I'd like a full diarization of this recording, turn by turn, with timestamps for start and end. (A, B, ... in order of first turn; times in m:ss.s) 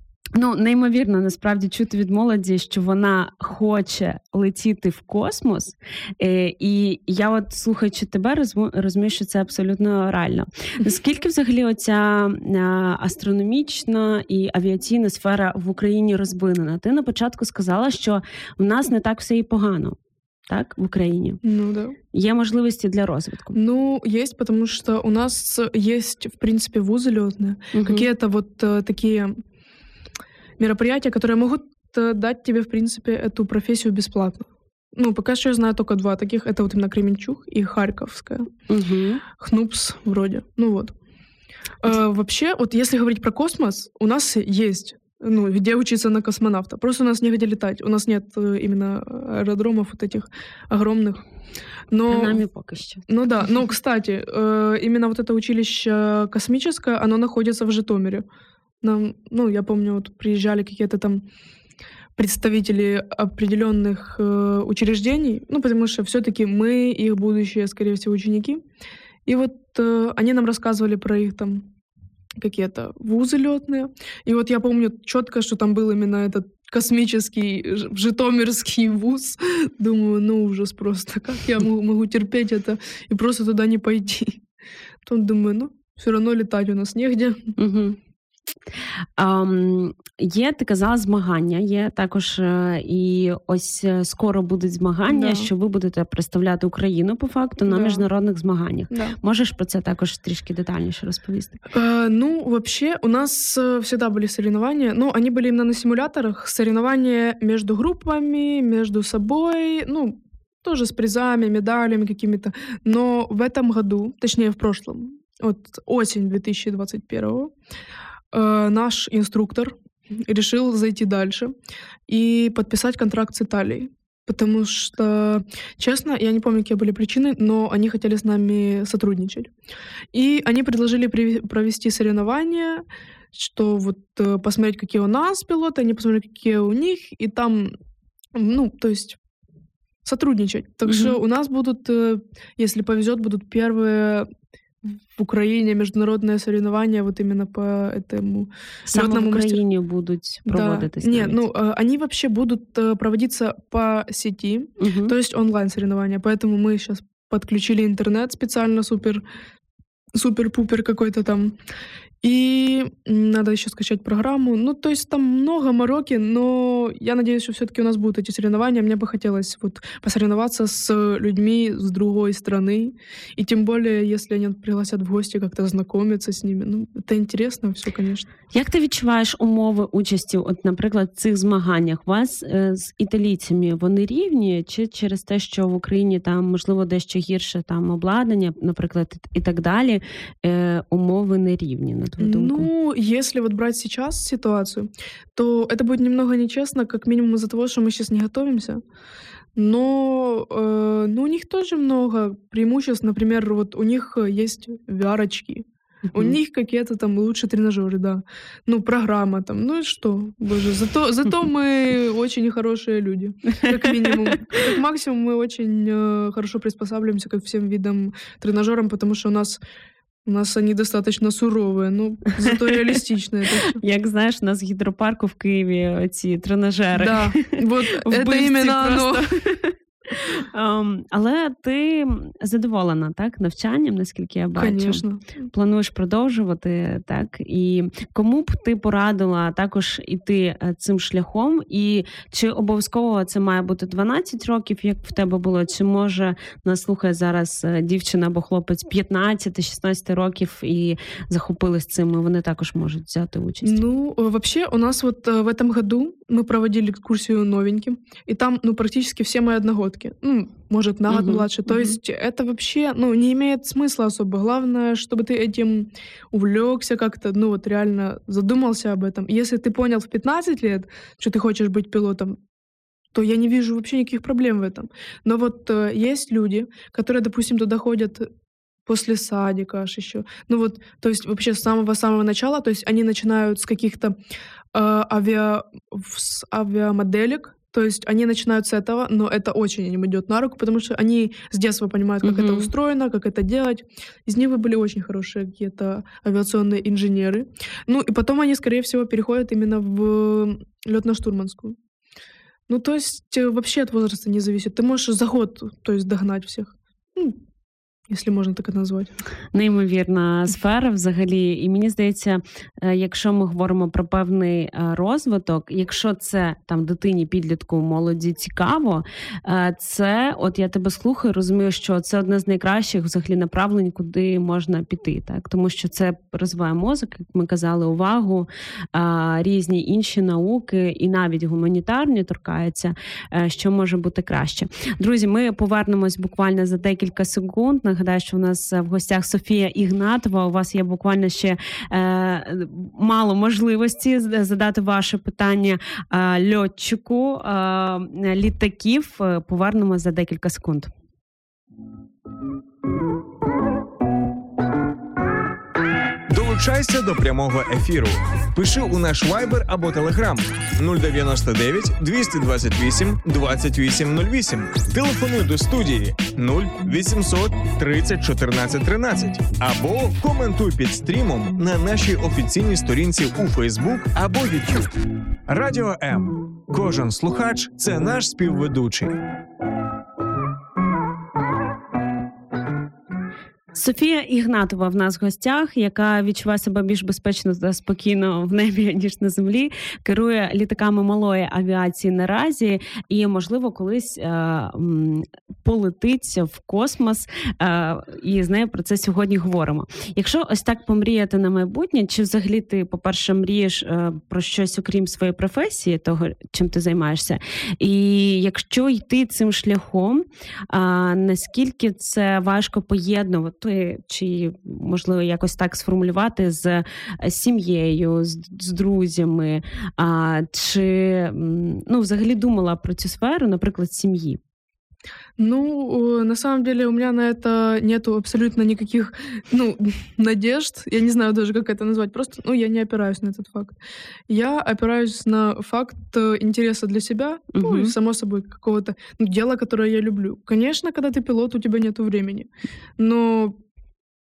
0:00.4-0:20.0 A
0:20.5-0:21.4 A
0:21.4-0:22.0 B
0:22.1-0:23.6 A
0:23.5-0:29.4 B
0:27.7-0:28.1 A
0:30.6-0:38.5 B
0:38.7-0:39.2 A
0:39.3-0:41.0 B
0:41.8-0:51.2 B
0:51.9-0:52.4 B
0:52.1-0:53.1 A
0:53.1-0:58.3 B
0:58.8-1:01.2 B
1:02.2-1:08.6 B
1:09.3-1:11.7 B
1:12.4-1:24.4 B
1:25.0-1:27.6 B
1:27.6-1:28.0 A
1:29.2-1:41.6 A
1:35.1-1:35.5 B
1:37.7-1:38.1 B
1:38.9-1:39.2 B
1:41.7-1:57.5 B
1:58.3-2:01.6 B
2:02.1-2:09.5 B
2:10.1-2:17.7 B
2:18.3-2:19.2 B
2:20.0-2:24.3 B
2:20.9-2:21.2 A
2:24.8-2:29.6 B
2:28.9-2:31.4 A
2:30.5-2:39.2 B
2:34.8-2:35.1 A
2:40.1-2:41.6 B
2:42.2-2:58.3 B
2:58.5-3:12.7 A
3:12.2-3:18.8 B
3:19.6-3:39.6 B
3:33.6-3:34.3 A
3:40.2-3:43.8 B
3:43.6-4:13.8 A
3:47.0-3:49.2 B
3:54.6-3:55.3 B
4:13.6-4:32.4 B
4:21.1-4:21.5 A
4:33.1-4:38.3 B
4:38.9-4:44.2 B
4:44.7-5:01.8 B
4:52.2-4:52.7 A
5:02.7-5:07.4 B
5:08.1-5:09.1 B
5:09.5-5:50.9 A
5:56.3-6:14.9 C
6:15.5-6:19.2 C
6:23.7-7:04.4 A
7:05.4-7:23.6 B
7:17.5-7:17.9 A